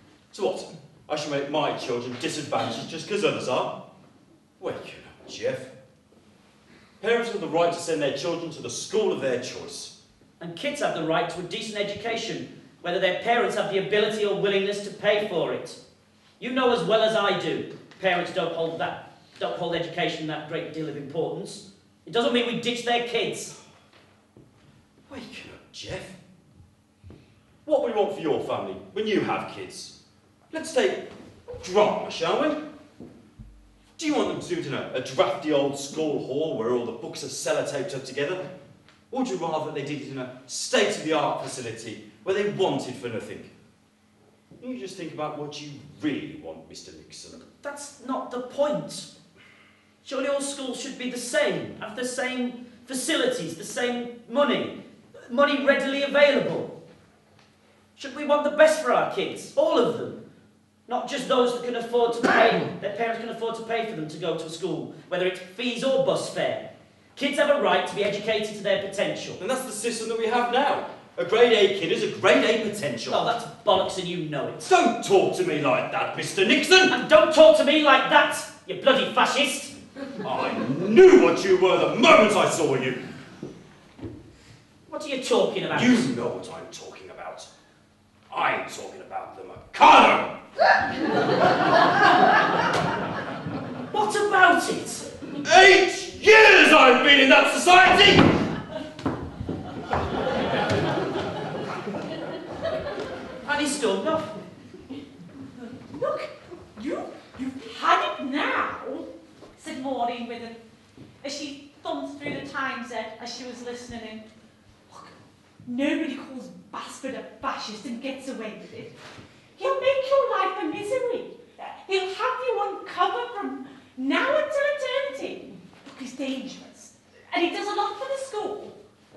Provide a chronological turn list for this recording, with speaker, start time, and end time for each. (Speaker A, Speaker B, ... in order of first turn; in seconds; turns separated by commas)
Speaker A: 0.3-3.7, Speaker A: 4.6-5.7, Speaker A: 7.0-9.9, Speaker B: 10.4-15.8, Speaker B: 16.4-23.6, Speaker A: 25.1-26.2, Speaker A: 27.6-29.9, Speaker A: 30.5-31.1, Speaker A: 31.6-32.6, Speaker A: 34.0-38.5, Speaker A: 39.1-43.5, Speaker A: 44.6-47.4, Speaker B: 47.4-49.1, Speaker B: 50.0-54.8, Speaker B: 55.3-56.7, Speaker B: 58.0-60.2, Speaker B: 60.9-69.4, Speaker A: 69.4-73.3, Speaker B: 73.1-74.7, Speaker A: 74.6-77.0, Speaker B: 76.9-79.7, Speaker A: 80.2-83.0, Speaker B: 84.9-86.1, Speaker A: 85.7-87.5, Speaker A: 88.3-90.3, Speaker B: 93.9-95.1, Speaker A: 95.5-98.4, Speaker B: 103.5-104.3, Speaker C: 105.9-110.6, Speaker C: 111.2-114.3, Speaker C: 115.7-119.0, Speaker C: 119.6-128.8